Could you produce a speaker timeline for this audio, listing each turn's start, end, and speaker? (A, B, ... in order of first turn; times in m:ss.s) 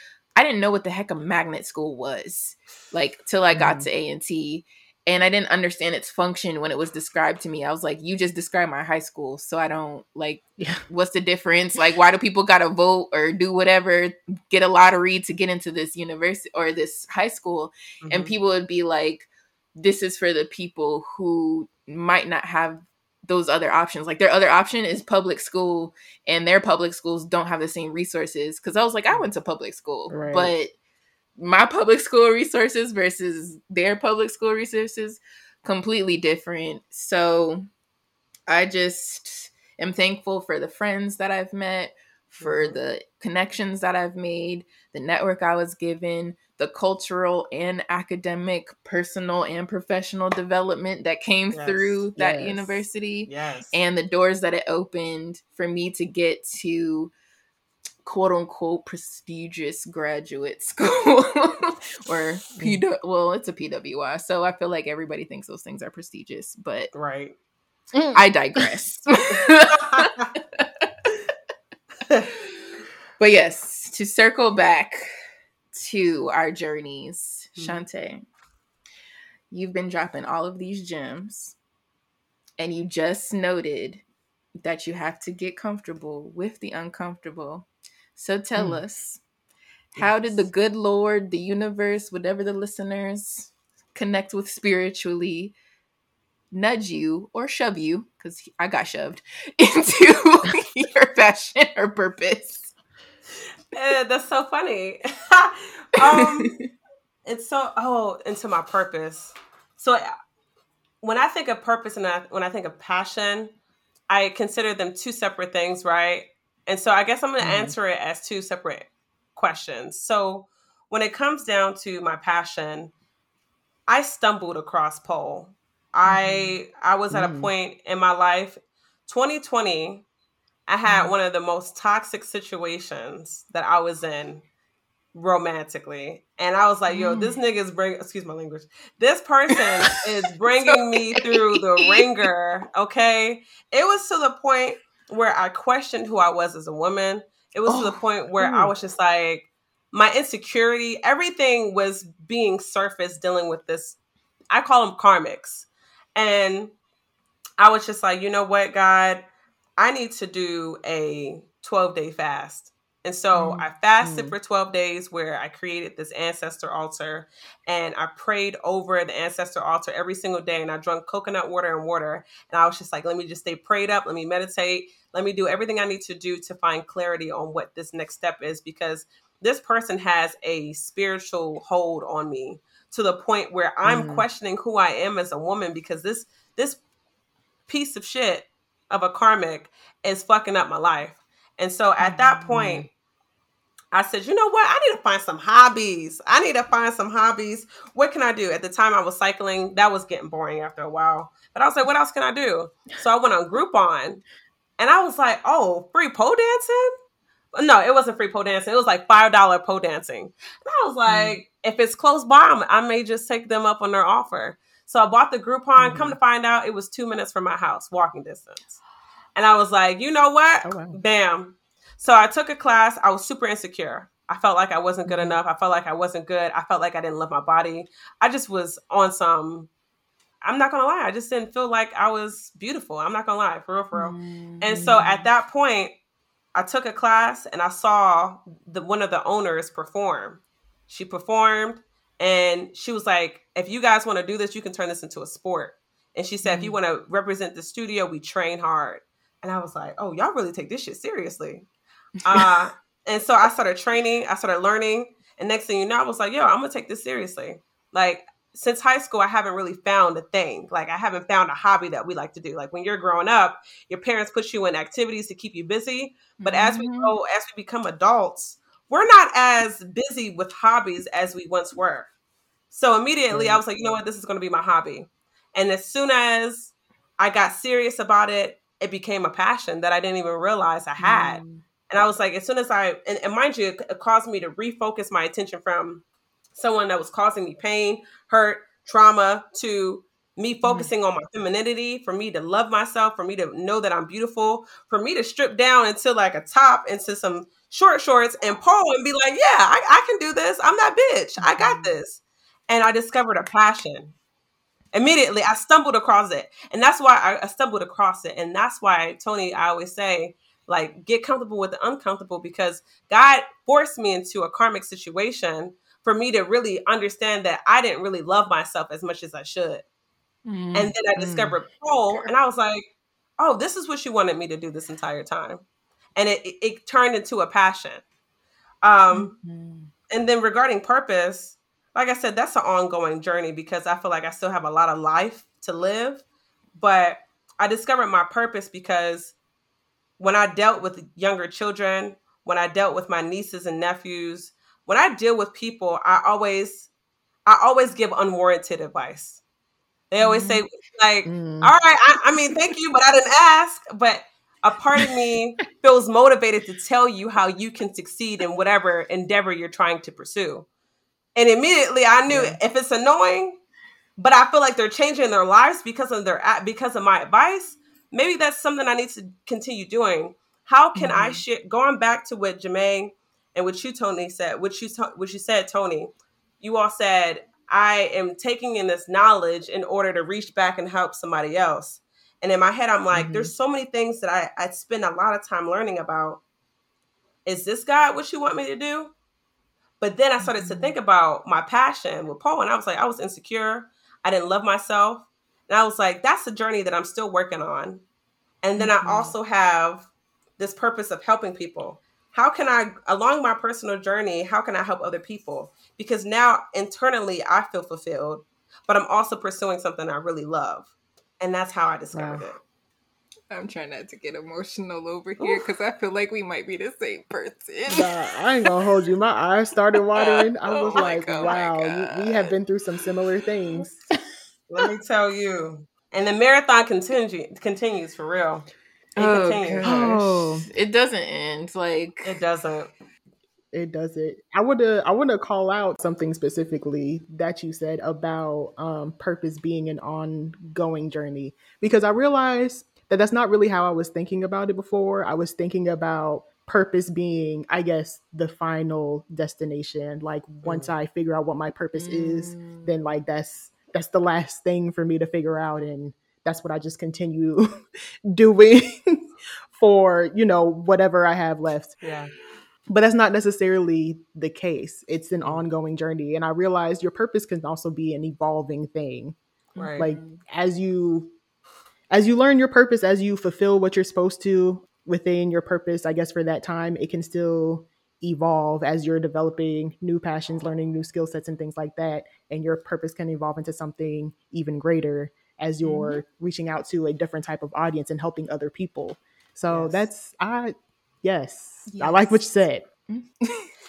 0:00.4-0:30.7 A
0:03.5-0:03.9 B
0:18.0-0:18.3 C
0:30.1-0:30.5 B
0:31.4-0:37.7 A
0:38.5-0:57.1 A
0:42.4-0:42.8 C
0:51.5-0:52.0 C
0:52.2-0:52.8 B
0:53.3-0:53.7 C
0:58.1-1:06.9 A
1:06.9-1:07.3 C
1:07.9-1:08.7 B
1:08.1-1:11.1 A
1:09.9-1:10.3 C
1:13.2-1:15.1 A
1:15.7-1:18.3 A
1:19.5-1:21.6 A
1:22.6-1:24.0 A
1:24.6-1:29.2 A
1:28.6-1:28.8 B
1:30.0-1:35.6 A
1:30.0-1:30.4 B
1:36.5-1:42.7 A
1:43.7-1:46.5 C
1:46.0-1:46.6 A
1:47.3-1:50.1 C
1:51.0-1:53.5 C
1:54.1-2:02.9 C
1:57.4-1:57.7 B
2:03.9-2:10.0 C
2:06.1-2:06.5 A
2:07.1-2:07.5 B
2:10.7-2:14.4 C
2:15.1-2:34.0 C
2:16.9-2:17.4 A
2:20.5-2:22.1 A
2:27.7-2:28.0 A
2:28.4-2:28.7 B
2:34.5-2:36.7 C
2:37.6-2:39.3 C
2:39.8-3:06.8 C
2:43.4-2:43.7 A
2:44.0-2:44.4 B
3:03.8-3:04.3 B
3:07.7-3:12.9 C
3:12.0-3:12.5 A
3:12.5-3:12.9 B
3:13.9-3:24.2 C
3:24.8-3:26.9 C
3:27.6-3:38.7 C
3:35.8-3:36.2 B
3:39.4-3:49.7 C
3:40.6-3:41.0 B
3:50.4-3:55.9 C
3:53.9-3:55.3 A
3:56.6-4:11.7 C
4:06.5-4:06.7 A
4:12.2-4:32.1 C
4:26.4-4:27.2 A
4:32.7-4:46.0 C
4:33.3-4:33.6 B
4:41.0-4:41.6 A
4:46.6-5:04.1 C
4:50.6-4:50.9 A
5:01.5-5:01.8 A
5:04.9-5:19.8 C
5:20.5-5:20.9 A
5:20.7-5:22.8 C
5:21.2-5:21.6 B
5:23.4-5:25.6 C
5:26.2-5:28.0 C
5:28.8-5:29.3 C
5:29.1-5:29.9 A
5:30.1-5:36.2 C
5:36.8-5:39.3 C
5:40.2-5:46.9 C
5:47.5-5:49.4 C
5:50.1-6:00.7 C
5:50.2-5:50.6 A
5:51.2-5:51.8 B
6:01.4-6:03.6 C
6:02.3-6:02.6 B
6:04.2-6:26.4 C
6:11.0-6:11.4 A
6:23.1-6:23.5 B
6:27.4-6:29.1 C
6:30.0-6:38.0 C
6:30.6-6:30.9 A
6:38.6-6:40.1 C
6:38.8-6:39.4 A
6:40.6-6:52.6 C
6:52.1-6:52.5 B
6:53.5-6:58.1 A
6:57.9-7:04.0 B
7:00.1-7:02.5 A
7:04.7-7:10.0 C
7:09.2-7:12.4 A
7:09.8-7:10.7 B
7:12.2-7:12.9 C
7:13.7-7:37.7 B
7:30.6-7:30.9 C
7:32.0-7:32.9 A
7:38.3-7:42.0 B
7:42.0-7:42.3 C
7:42.9-7:49.4 B
7:49.8-7:50.4 A
7:49.8-7:50.1 C
7:50.0-7:51.3 B
7:52.1-8:12.9 B
8:05.8-8:06.2 A
8:09.7-8:10.0 C
8:11.9-8:12.4 A
8:13.1-8:13.7 A